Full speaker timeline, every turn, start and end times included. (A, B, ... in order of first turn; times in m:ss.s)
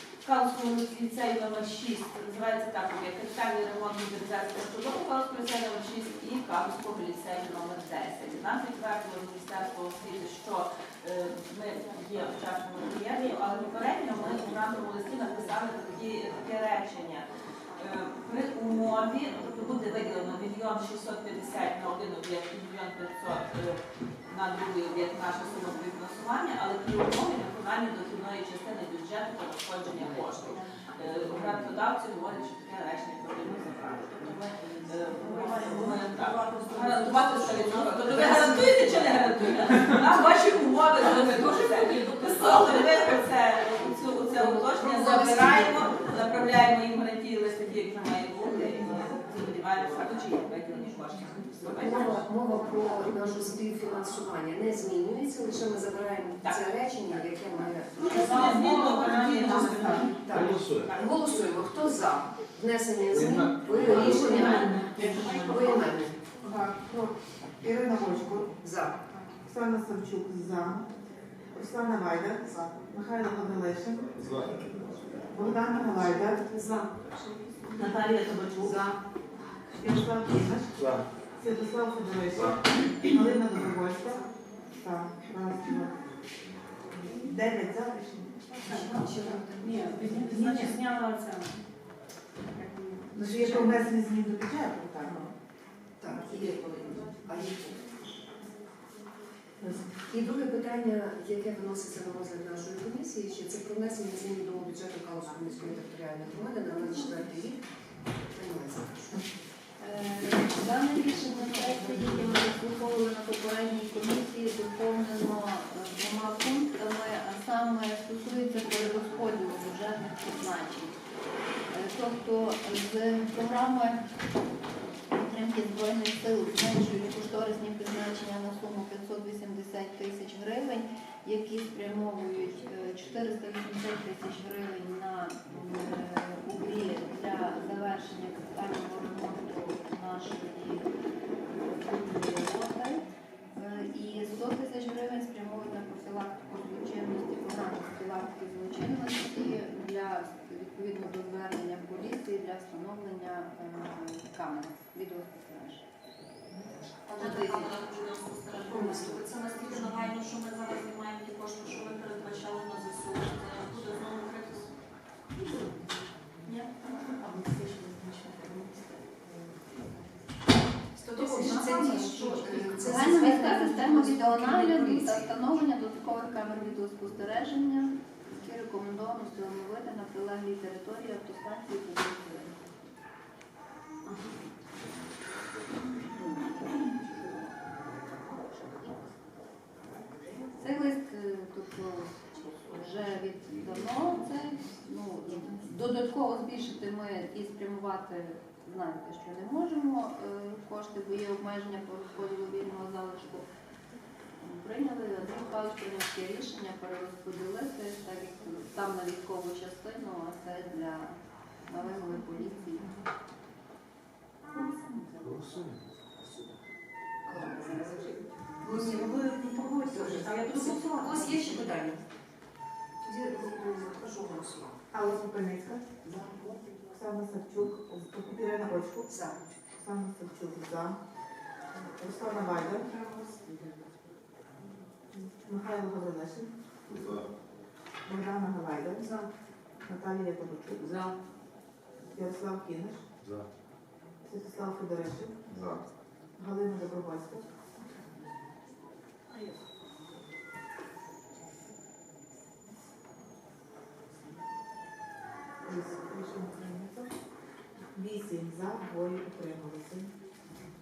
0:00.2-0:17.2 A
0:17.8-0:52.2 A
0:35.4-0:39.8 B
0:41.9-0:42.8 B
0:44.3-0:45.9 C
0:51.7-0:58.5 C
0:56.4-0:56.7 A
0:58.0-1:00.1 A
0:58.0-1:00.1 D
0:58.1-1:00.3 E
1:00.0-1:06.2 C
1:00.3-1:01.0 F
1:00.8-1:01.1 A
1:03.1-1:04.1 F
1:04.2-1:05.1 E
1:04.3-1:05.3 D
1:06.4-1:08.6 D
1:08.6-1:09.0 C
1:09.4-1:10.9 D
1:11.5-1:14.5 D
1:14.2-1:14.5 F
1:15.3-1:16.4 D
1:15.3-1:17.7 C
1:17.7-1:19.0 D
1:19.7-1:26.1 D
1:20.8-1:21.0 F
1:27.1-1:28.5 D
1:28.6-1:30.5 C
1:28.6-1:31.6 E
1:30.2-1:30.8 D
1:32.5-1:33.2 E
1:33.1-1:35.3 D
1:33.4-1:33.8 C
1:36.0-1:37.9 C
1:36.1-1:37.0 D
1:39.9-1:47.6 C
1:48.3-1:49.2 C
1:49.8-2:00.9 G
2:01.7-2:04.0 G
2:05.1-2:20.9 G
2:21.5-2:35.8 G
2:37.1-2:44.8 B
2:37.1-2:37.7 G
2:38.6-2:39.8 C
2:46.5-2:48.9 B
2:51.0-2:53.3 B
2:51.1-2:55.3 C
2:51.4-2:51.9 G
2:52.8-3:02.6 G
3:06.2-3:06.6 G
3:10.6-3:23.5 G
3:24.4-3:32.9 G
3:34.6-3:35.0 D
3:35.2-3:35.9 F
3:37.2-3:42.0 C
3:38.6-3:41.3 D
3:43.0-3:44.8 C
3:44.9-3:46.0 D
3:46.0-3:46.6 C
3:46.9-3:49.1 D
3:49.1-3:49.4 C
3:49.7-3:51.0 D
3:52.0-3:52.9 D
3:52.5-3:53.6 C
3:55.2-3:57.1 D
3:56.9-3:57.2 F
3:58.0-3:59.1 D
3:59.0-3:59.3 C
3:59.8-4:00.9 D
4:00.8-4:01.1 C
4:02.1-4:03.0 D
4:04.2-4:05.6 D
4:05.5-4:05.8 F
4:06.4-4:07.5 D
4:15.6-4:17.1 D
4:17.9-4:20.1 D